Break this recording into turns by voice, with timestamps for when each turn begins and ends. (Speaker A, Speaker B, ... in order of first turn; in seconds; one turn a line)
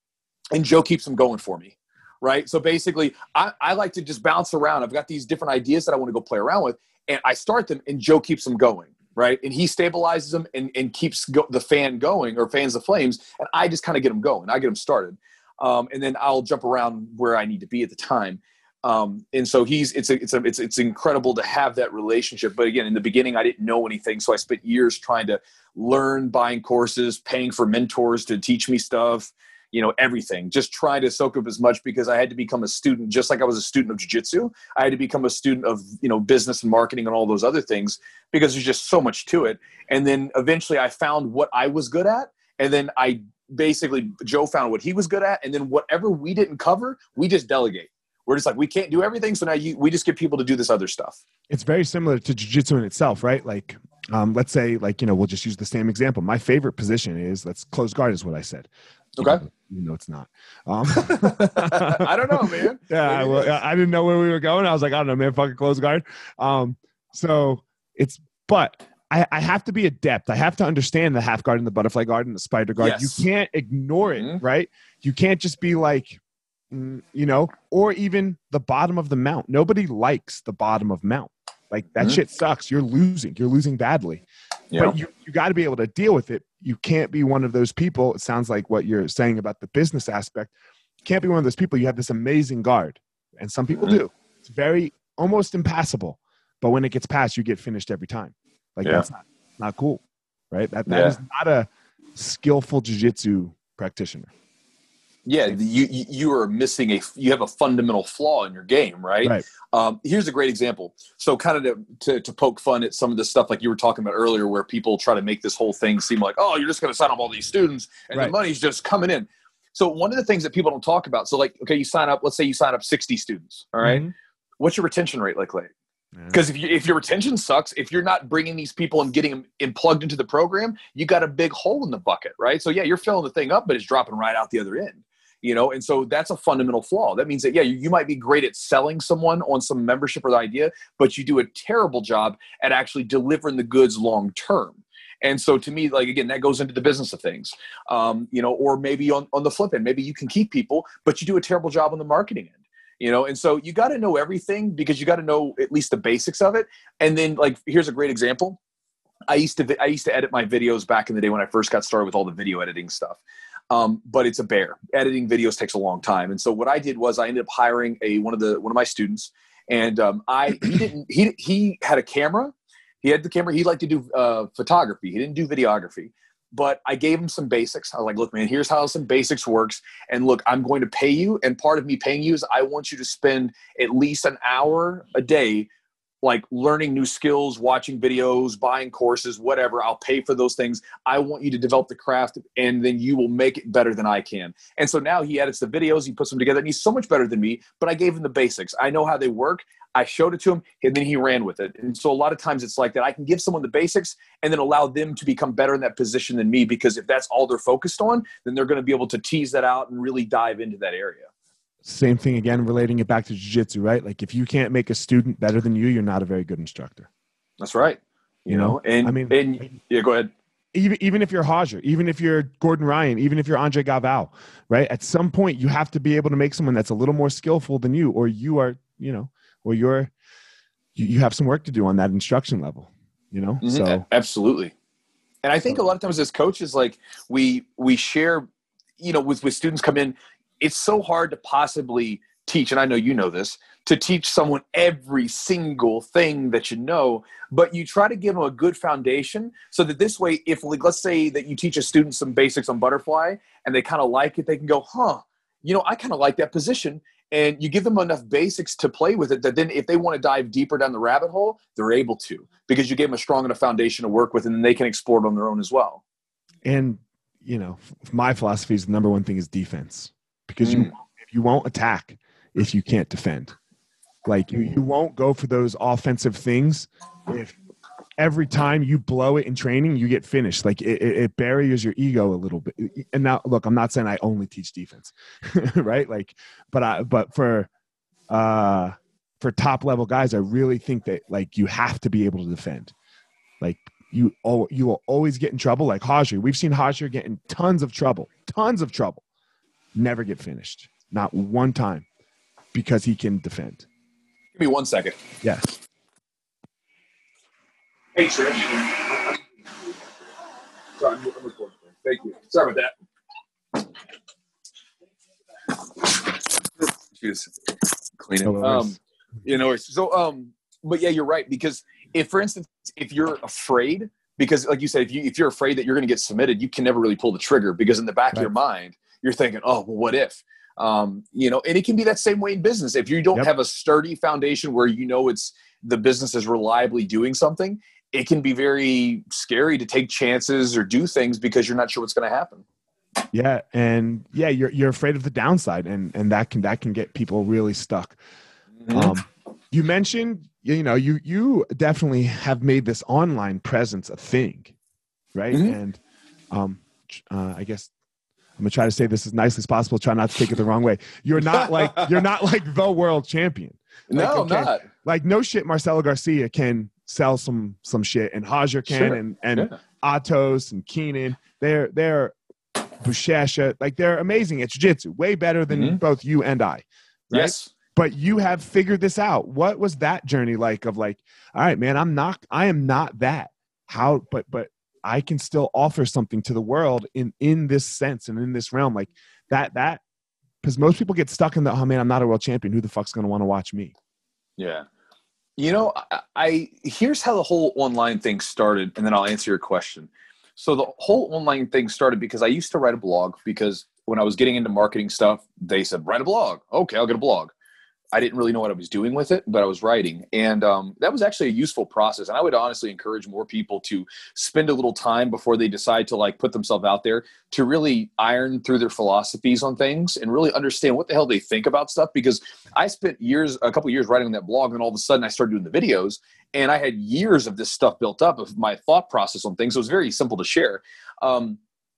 Speaker A: 0.5-51.2
Speaker B: 51.5-76.2
Speaker A: 59.2-59.4
Speaker A: 61.0-63.5
Speaker A: 72.8-73.2
Speaker A: 74.1-74.4
Speaker B: 76.7-84.2
Speaker B: 84.8-90.5
Speaker B: 91.0-104.3
Speaker A: 100.9-101.2
Speaker A: 105.2-124.1
Speaker B: 123.8-124.1
Speaker A: 124.6-125.7
Speaker A: 126.3-158.6
Speaker A: 159.3-185.7
Speaker A: 186.2-211.3
Speaker B: 211.8-217.1
Speaker A: 217.6-220.3
Speaker B: 218.5-219.7
Speaker B: 220.7-230.1
Speaker B: 230.9-234.0
Speaker A: 233.6-234.7
Speaker A: 235.4-238.5
Speaker A: 239.0-266.0
Speaker B: 266.6-273.6
Speaker A: 270.6-270.9
Speaker B: 274.2-277.6
Speaker B: 278.2-287.7
Speaker B: 288.3-292.9
Speaker B: 293.6-299.2
Speaker B: 299.9-302.1
Speaker B: 302.7-303.9
Speaker A: 304.5-305.2
Speaker B: 305.4-305.8
Speaker A: 308.1-309.4
Speaker A: 311.0-312.9
Speaker A: 315.9-317.5
Speaker A: 318.1-342.6
Speaker B: 318.4-319.0
Speaker B: 343.3-348.2
Speaker A: 348.8-349.1
Speaker B: 348.9-354.7
Speaker B: 355.3-356.0
Speaker A: 355.5-355.8
Speaker B: 356.5-357.9
Speaker B: 358.6-372.3
Speaker A: 361.6-362.0
Speaker A: 364.1-364.8
Speaker A: 368.9-369.7
Speaker B: 373.0-390.0
Speaker A: 375.7-376.0
Speaker A: 377.3-377.7
Speaker B: 390.6-393.9
Speaker A: 394.6-394.9
Speaker A: 395.6-407.5
Speaker A: 408.1-431.6